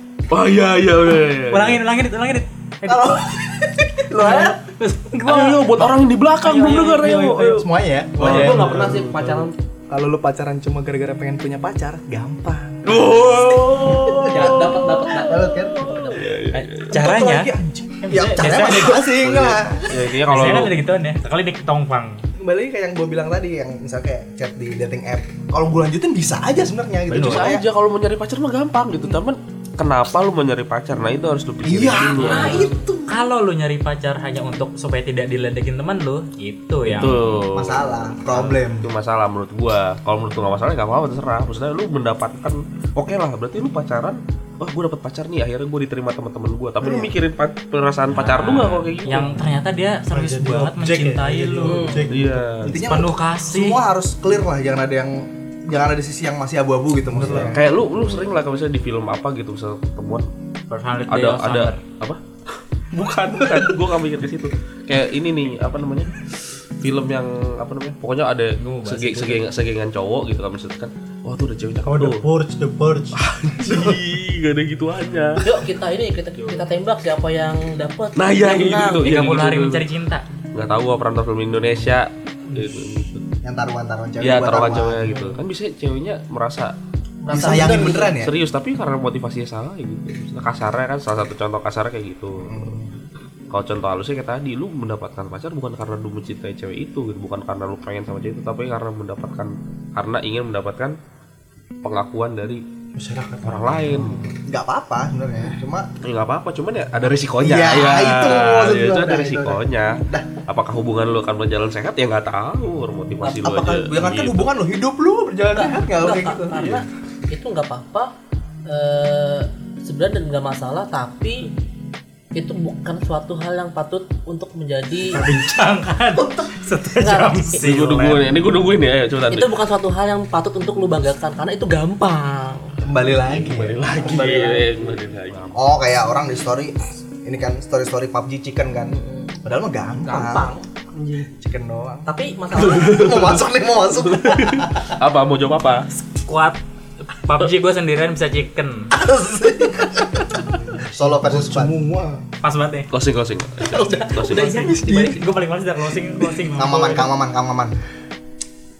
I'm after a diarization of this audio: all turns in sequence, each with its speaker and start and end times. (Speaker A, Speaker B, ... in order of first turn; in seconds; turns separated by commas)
Speaker A: 0.3-1.8, Speaker B: 1.3-3.2, Speaker C: 2.9-4.6, Speaker B: 4.1-7.6, Speaker A: 5.2-7.6, Speaker C: 7.5-9.1, Speaker A: 8.2-8.8, Speaker D: 8.2-9.5, Speaker B: 8.2-8.5, Speaker E: 8.5-9.1, Speaker C: 9.9-16.1, Speaker A: 12.8-17.0, Speaker D: 14.2-15.9, Speaker B: 16.5-17.5, Speaker C: 16.9-20.0, Speaker B: 18.0-19.1, Speaker A: 19.2-20.8, Speaker B: 20.2-22.2, Speaker C: 22.4-27.6, Speaker A: 27.1-32.7, Speaker B: 27.1-27.5, Speaker C: 31.6-33.0, Speaker D: 32.1-32.9, Speaker B: 32.3-37.4, Speaker A: 36.8-49.3, Speaker C: 37.5-38.9, Speaker B: 48.1-52.0, Speaker E: 50.1-52.8, Speaker D: 51.6-52.1, Speaker A: 52.1-52.7, Speaker C: 52.6-57.6, Speaker B: 52.7-53.8, Speaker E: 57.1-57.6, Speaker A: 57.5-60.3, Speaker B: 57.9-58.3, Speaker B: 60.7-61.8, Speaker A: 61.1-62.2, Speaker A: 62.9-72.3, Speaker B: 68.6-69.4, Speaker E: 71.8-74.0, Speaker A: 73.1-75.4, Speaker D: 75.4-79.1, Speaker B: 76.4-76.7, Speaker A: 78.2-79.9, Speaker B: 78.9-80.2, Speaker A: 80.5-83.2, Speaker E: 82.5-82.8, Speaker C: 83.4-85.1, Speaker A: 84.2-86.7, Speaker E: 85.1-85.4, Speaker D: 87.2-88.1, Speaker C: 87.3-88.3, Speaker E: 87.3-87.8, Speaker A: 88.2-92.7, Speaker C: 92.4-93.0, Speaker A: 93.5-101.0, Speaker A: 101.8-102.6, Speaker E: 102.9-104.4, Speaker A: 103.4-104.3, Speaker C: 104.4-105.9, Speaker A: 106.0-114.5, Speaker C: 107.4-110.3, Speaker C: 113.2-116.8, Speaker D: 115.5-118.1, Speaker D: 118.7-121.5, Speaker D: 122.3-125.2, Speaker B: 125.1-128.3, Speaker D: 127.0-127.6, Speaker A: 127.6-129.6, Speaker D: 129.3-132.8, Speaker C: 132.8-135.0, Speaker A: 132.9-135.7, Speaker C: 135.5-140.5, Speaker D: 138.9-139.4, Speaker D: 140.0-140.7, Speaker E: 140.9-141.3, Speaker C: 141.4-144.9, Speaker D: 142.1-143.2, Speaker A: 143.0-143.3, Speaker A: 144.0-145.9, Speaker B: 146.1-148.9, Speaker C: 149.0-150.2, Speaker E: 150.4-152.2, Speaker C: 150.9-151.8, Speaker B: 152.4-152.9, Speaker A: 152.9-154.8, Speaker D: 153.7-154.8, Speaker B: 153.7-157.1, Speaker C: 154.5-155.2, Speaker C: 156.5-157.8